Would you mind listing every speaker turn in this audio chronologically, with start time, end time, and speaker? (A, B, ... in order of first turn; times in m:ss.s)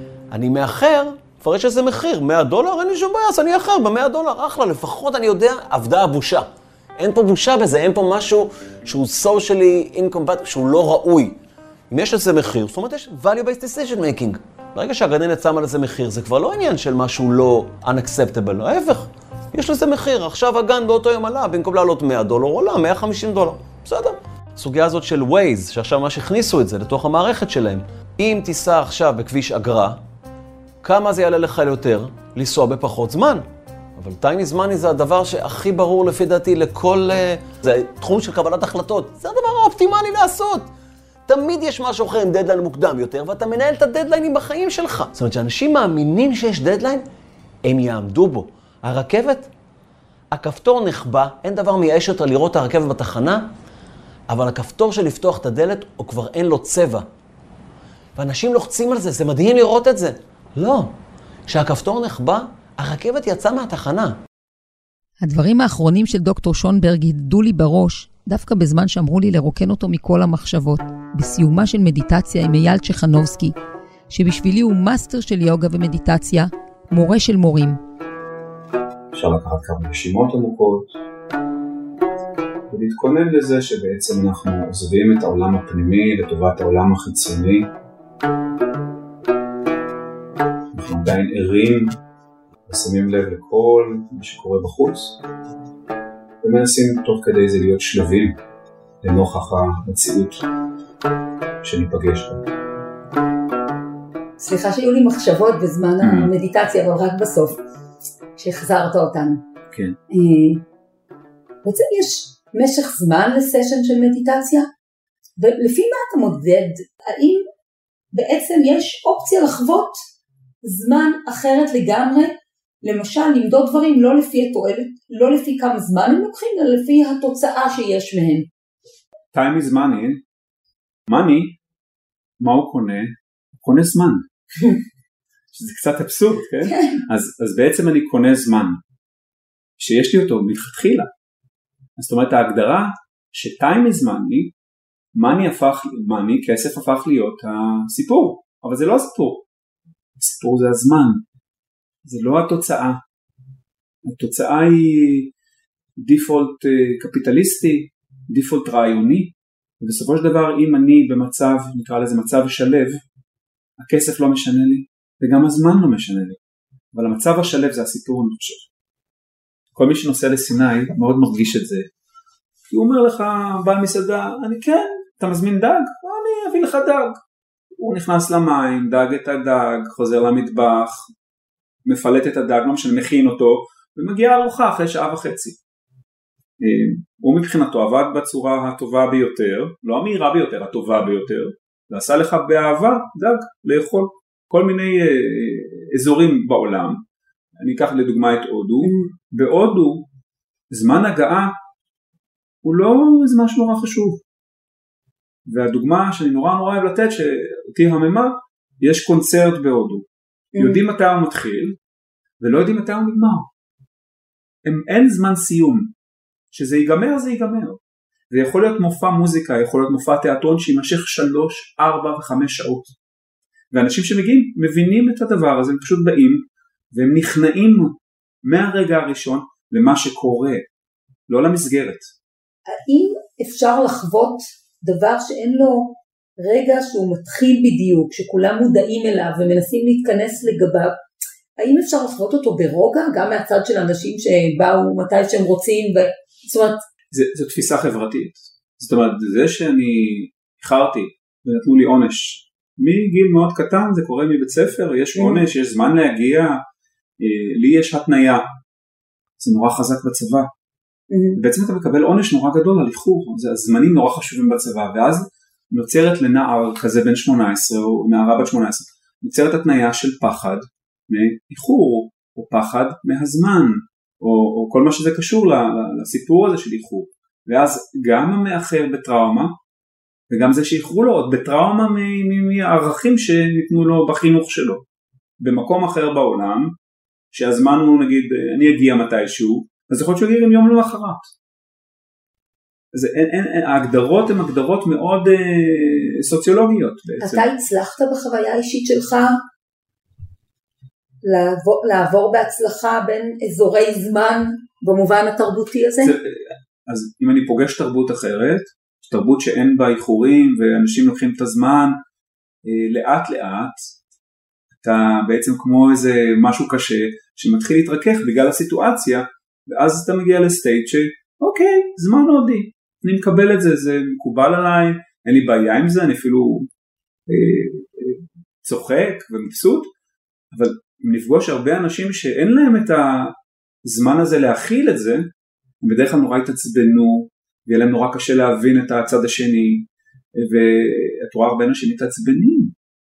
0:00.3-0:11.4 A
0:11.9-0:30.0 A
0:30.8-0:33.4 A
0:34.0-0:40.7 A
0:41.3-0:47.0 A
0:47.6-0:49.5 A
0:50.3-0:53.5 A
0:54.3-0:57.1 A
0:58.2-1:00.9 A
1:01.5-1:04.2 A
1:05.2-1:13.5 B
1:14.1-1:17.8 B
1:19.1-1:21.0 C
1:22.7-1:27.7 C
1:30.7-1:31.9 C
1:32.7-1:35.2 C
1:36.4-1:38.4 C
1:39.0-1:40.4 C
1:41.6-1:42.4 C
1:44.4-1:47.6 B
1:46.0-1:46.3 C
1:48.4-1:49.4 B
1:49.7-1:50.0 C
1:50.1-1:50.6 B
1:51.6-1:54.7 B
1:55.4-1:57.4 B
1:58.1-2:00.0 B
2:00.6-2:08.5 B
2:09.3-2:10.2 C
2:11.1-2:11.6 C
2:12.4-2:14.2 C
2:15.5-2:18.8 C
2:16.6-2:17.0 B
2:19.8-2:21.1 C
2:22.0-2:24.5 C
2:25.1-2:29.4 C
2:30.2-2:31.2 C
2:32.0-2:33.0 C
2:34.0-2:35.3 C
2:36.0-2:43.0 C
2:43.8-2:46.4 C
2:46.9-2:48.7 C
2:49.7-2:51.9 C
2:52.7-2:57.2 C
2:57.8-3:01.1 C
3:01.8-3:05.6 C
3:06.6-3:17.0 C
3:17.6-3:20.0 C
3:18.8-3:19.1 B
3:20.7-3:21.5 C
3:22.6-3:24.2 C
3:25.5-3:30.0 C
3:30.5-3:30.8 B
3:30.6-3:31.8 C
3:32.4-3:33.5 C
3:34.6-3:35.9 C
3:36.5-3:37.8 C
3:38.3-3:42.9 C
3:43.7-3:50.6 C
3:51.3-3:52.1 C
3:52.7-4:01.0 B
4:01.6-4:06.8 B
4:07.1-4:16.6 C
4:15.1-4:15.4 B
4:17.2-4:18.4 C
4:19.4-4:20.5 C
4:21.1-4:21.4 B
4:21.4-4:39.5 C
4:40.3-4:44.8 C
4:45.4-4:46.7 C
4:47.3-4:51.3 C
4:52.9-4:57.4 C
4:57.2-4:59.4 B
5:01.2-5:06.1 B
5:06.0-5:12.0 C
5:12.6-5:13.8 C
5:14.8-5:26.7 C
5:27.3-5:29.9 C
5:30.5-5:33.3 C
5:33.8-5:35.3 C
5:35.8-5:39.9 C
5:40.4-5:42.7 C